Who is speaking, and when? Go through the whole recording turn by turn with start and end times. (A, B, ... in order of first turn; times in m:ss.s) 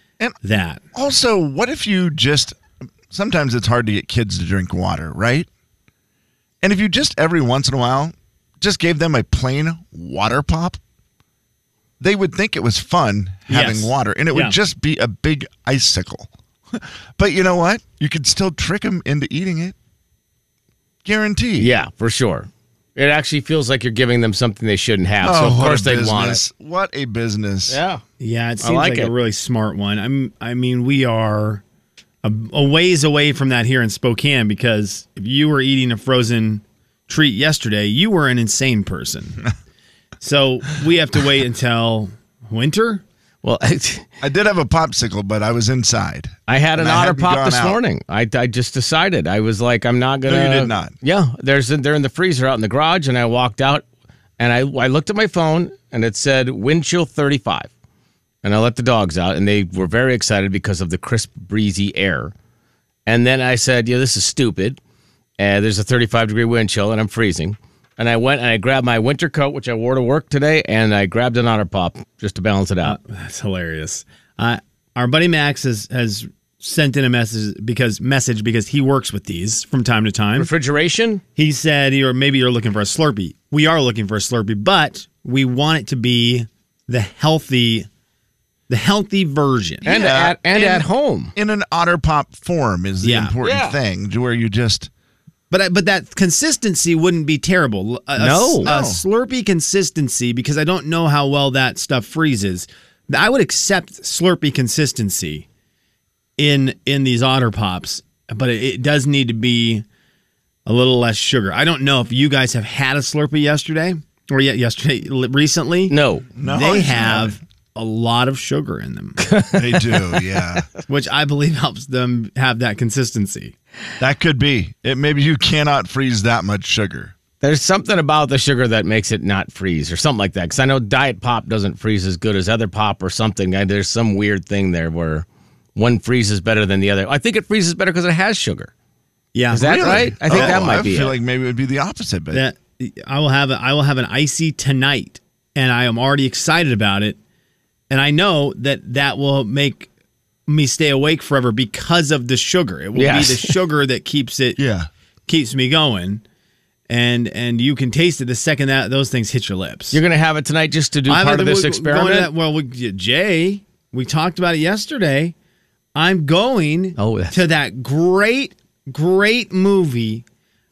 0:00.4-0:00.8 A
0:00.9-0:02.6 B
0:03.1-0:05.5 B
0:06.6-0:10.8 B
0:12.0-0:19.8 B
0:13.5-0:14.6 A
0:21.0-0:21.7 B
0:21.6-0:26.4 C
0:25.2-0:27.8 B
0:27.7-0:28.0 C
0:28.2-0:31.6 A
0:28.6-0:29.1 C
0:32.2-0:39.5 A
0:40.2-0:43.0 A
0:43.4-0:44.1 C
0:44.2-0:47.8 B
0:46.5-0:53.8 C
0:50.2-0:50.9 B
0:54.4-0:57.7 C
0:58.4-1:02.3 C
1:03.1-1:04.8 C
1:05.4-1:13.0 C
1:12.8-1:20.5 A
1:20.4-1:21.2 C
1:21.4-1:27.9 A
1:28.7-1:29.8 A
1:29.8-1:34.9 B
1:29.8-1:31.3 C
1:33.0-1:33.4 A
1:33.4-1:33.8 C
1:35.5-1:45.4 A
1:38.2-1:38.7 C
1:38.6-1:39.0 B
1:46.4-1:49.8 A
1:50.7-1:59.2 A
1:55.9-1:56.3 C
1:56.4-1:57.4 B
1:59.2-2:00.2 C
1:59.5-2:00.7 B
2:00.9-2:03.5 A
2:04.0-2:07.2 B
2:07.4-2:18.7 C
2:19.3-2:20.8 A
2:19.5-2:21.2 C
2:19.6-2:22.5 B
2:22.3-2:27.2 A
2:27.9-2:29.9 A
2:30.5-2:34.6 A
2:33.0-2:33.6 C
2:34.6-2:34.9 B
2:35.3-2:36.2 A
2:36.9-2:40.0 A
2:39.9-2:42.3 C
2:41.1-2:45.4 A
2:46.0-2:50.2 A
2:47.0-2:47.4 C